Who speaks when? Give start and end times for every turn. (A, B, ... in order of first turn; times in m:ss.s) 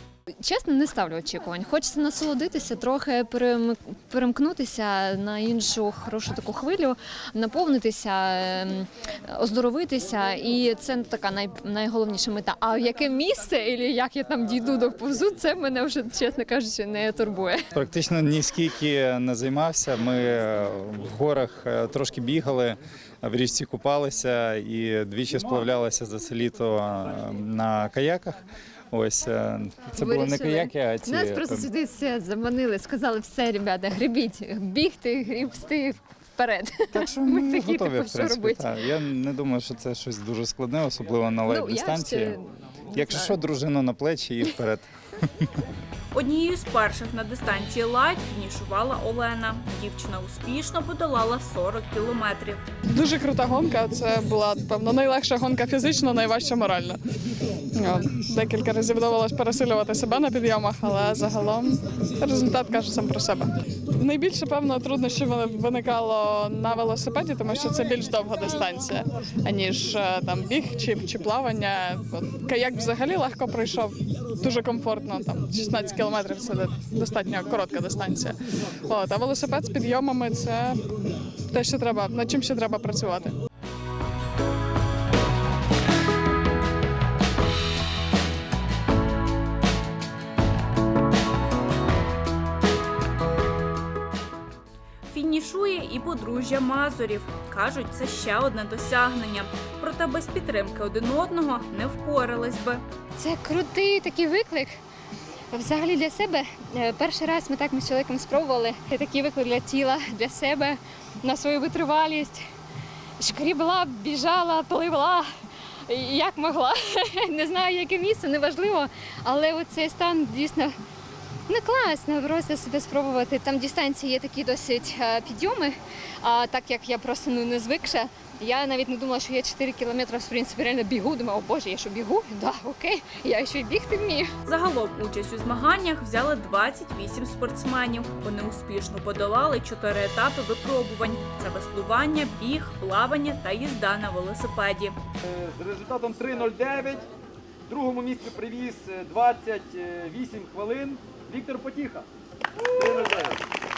0:00.4-0:17.6 A
0:17.7-0:28.4 B
0:28.9-0:31.7 B
0:29.9-0:38.7 A
0:36.9-0:42.4 B
0:41.5-0:43.4 A
0:42.9-0:44.9 B
0:46.1-0:52.6 C
0:52.9-0:57.0 D
0:57.7-1:20.8 D
1:21.5-1:23.3 D
1:35.1-1:42.8 C
1:43.2-1:44.8 A
1:45.5-1:52.4 A
1:53.2-1:55.3 A
1:55.9-2:00.7 A
2:01.5-2:14.3 A
2:14.4-2:25.0 C
2:25.3-2:27.0 E
2:27.7-2:32.0 E
2:32.7-2:33.4 E